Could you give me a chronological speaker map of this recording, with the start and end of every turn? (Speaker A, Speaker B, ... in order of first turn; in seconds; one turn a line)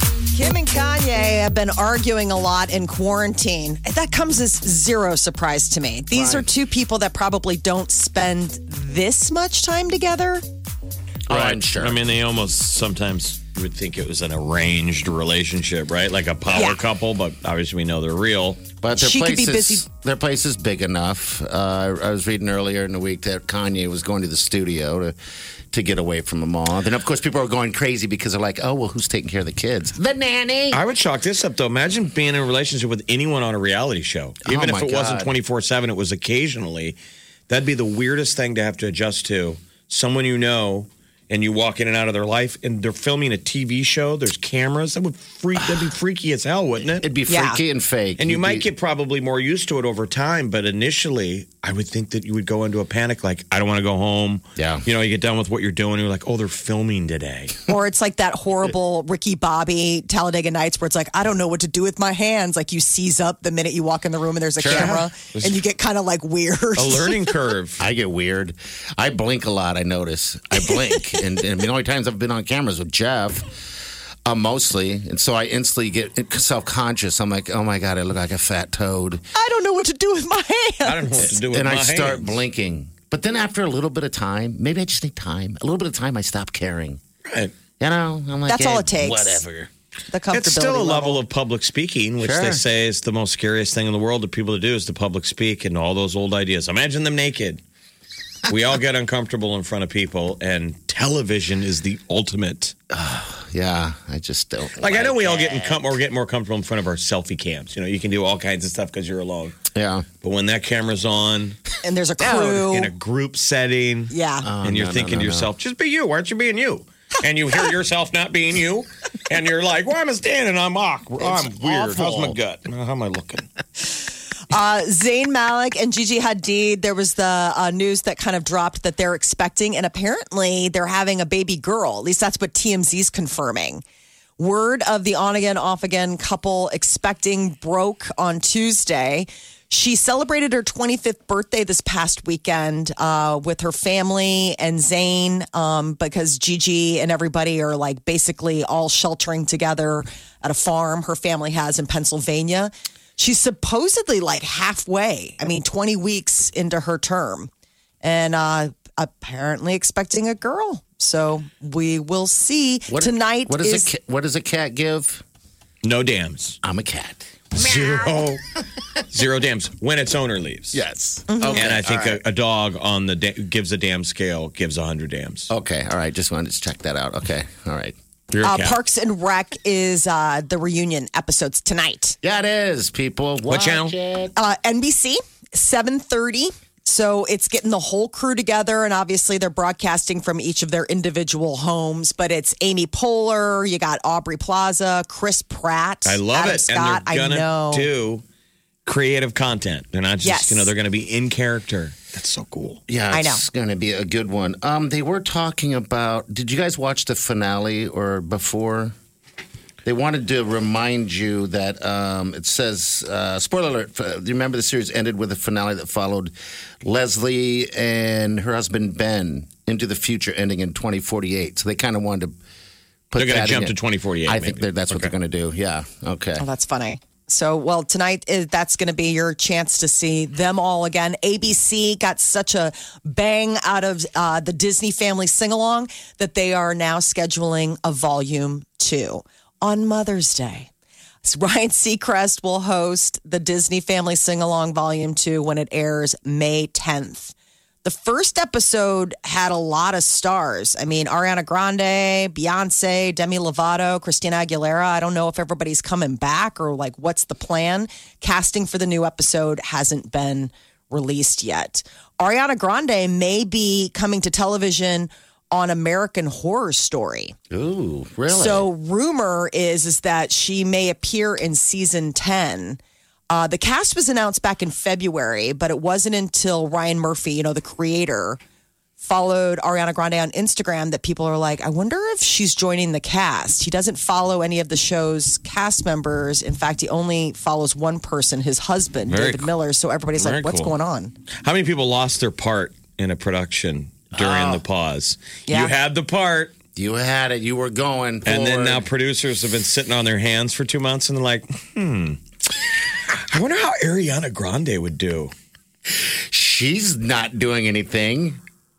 Speaker A: 0.3-10.4
Speaker B: 6.1-6.5
Speaker B: 11.3-12.0
Speaker C: 11.3-18.6
Speaker A: 16.5-16.8
Speaker B: 18.8-25.1
Speaker A: 18.9-19.9
Speaker B: 25.7-30.8
Speaker C: 30.7-37.0
Speaker B: 34.4-35.3
Speaker C: 37.5-47.1
Speaker B: 46.9-48.7
Speaker A: 47.3-47.6
Speaker C: 48.2-57.5
Speaker B: 54.5-54.9
Speaker A: 57.7-67.3
Speaker B: 64.6-65.0
Speaker C: 64.7-65.6
Speaker C: 66.8-67.8
Speaker B: 67.8-73.7
Speaker B: 74.2-79.2
Speaker A: 79.3-81.3
Speaker C: 80.8-82.4
Speaker B: 81.3-87.0
Speaker C: 87.3-87.5
Speaker B: 87.8-89.7
Speaker A: 88.5-89.4
Speaker A: 90.1-91.2
Speaker C: 90.3-97.6
Speaker B: 92.2-92.6
Speaker C: 98.5-102.7
Speaker B: 102.9-105.9
Speaker C: 104.8-109.6
Speaker B: 109.7-110.0
Speaker C: 110.2-111.6
Speaker A: 111.8-112.9
Speaker C: 112.2-114.1
Speaker A: 114.1-114.5
Speaker B: 114.4-115.5
Speaker C: 114.6-123.5
Speaker B: 121.2-122.4
Speaker A: 124.5-133.8
Speaker A: 134.4-157.5
Speaker A: 158.0-163.9
Speaker B: 162.9-165.2
Speaker C: 165.8-166.6
Speaker B: 166.6-168.4
Speaker C: 167.5-168.4
Speaker C: 169.1-170.8
Speaker B: 170.7-172.2
Speaker A: 171.3-171.6
Speaker C: 171.5-175.5
Speaker B: 175.5-177.9
Speaker C: 178.3-178.8
Speaker A: 178.4-182.2
Speaker B: 182.2-184.3
Speaker C: 183.5-183.9
Speaker A: 184.4-197.9
Speaker C: 196.1-198.2
Speaker C: 198.9-202.8
Speaker A: 200.2-200.7
Speaker B: 202.9-208.9
Speaker A: 203.1-203.4
Speaker B: 209.8-222.4
Speaker B: 223.1-226.4
Speaker C: 223.2-225.1
Speaker A: 226.4-240.7
Speaker A: 241.2-267.4
Speaker B: 267.5-268.7
Speaker A: 268.3-272.8
Speaker A: 273.3-278.4
Speaker A: 279.0-291.1
Speaker C: 289.1-289.5
Speaker C: 290.2-290.7
Speaker C: 291.4-296.5
Speaker B: 294.1-294.6
Speaker A: 295.5-295.7
Speaker B: 296.8-298.9
Speaker C: 298.2-302.2
Speaker C: 303.1-305.3
Speaker B: 305.9-308.4